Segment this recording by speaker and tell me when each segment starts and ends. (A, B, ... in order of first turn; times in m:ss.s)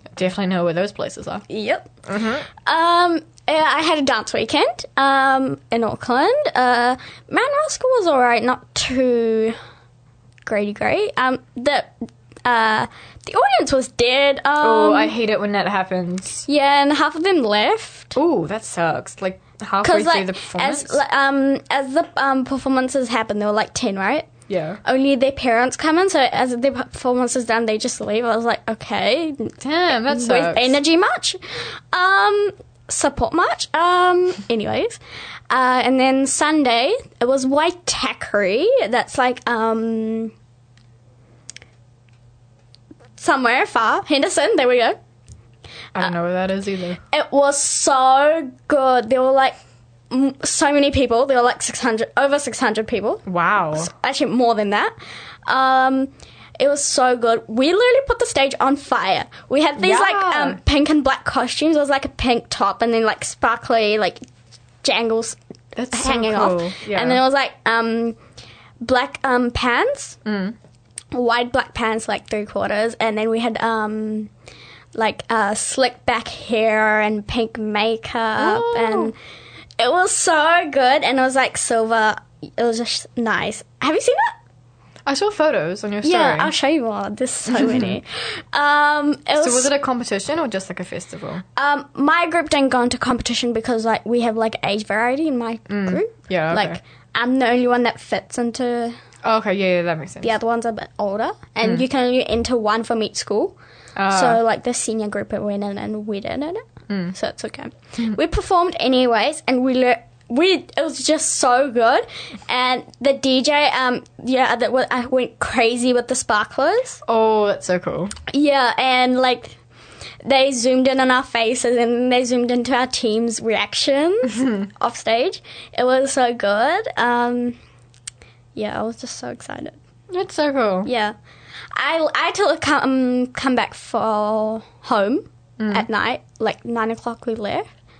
0:00.1-0:01.4 A
0:01.5-0:01.9 B
0:02.1-0:02.5 A
0:02.6-0:09.6 B
0:10.4-0:11.9 B
0:12.4-0:15.1 B
0:14.6-0:16.5 A
0:16.5-0:18.2 B
0:18.1-0:21.0 A
0:19.8-0:24.3 B
0:24.5-0:24.8 A
0:24.8-0:35.0 B
0:29.6-0:30.8 A
0:35.5-0:40.3 B
0:43.2-0:45.0 B
0:45.9-0:47.0 A
0:47.1-0:49.6 B
0:50.1-0:54.9 B
0:53.2-0:53.9 A
0:55.4-1:04.2 B
0:59.8-1:00.6 A
1:04.8-1:05.4 B
1:05.7-1:07.2 A
1:05.9-1:08.2 B
1:08.8-1:10.2 B
1:10.2-1:10.6 A
1:11.1-1:14.3 B
1:14.9-1:19.2 B
1:18.4-1:19.1 A
1:19.8-1:24.3 B
1:25.0-1:26.5 A
1:26.0-1:29.7 B
1:27.5-1:28.0 A
1:29.4-1:31.4 A
1:31.6-1:39.0 B
1:35.7-1:36.8 A
1:39.2-1:40.3 A
1:40.2-1:43.6 B
1:44.0-1:44.4 A
1:44.1-1:57.0 B
1:46.9-1:47.1 A
1:57.0-1:58.1 A
1:58.3-1:59.6 B
2:00.2-2:07.6 B
2:04.3-2:04.6 A
2:08.5-2:09.8 B
2:10.1-2:10.9 A
2:10.8-2:11.1 B
2:11.7-2:17.6 B
2:15.6-2:15.9 A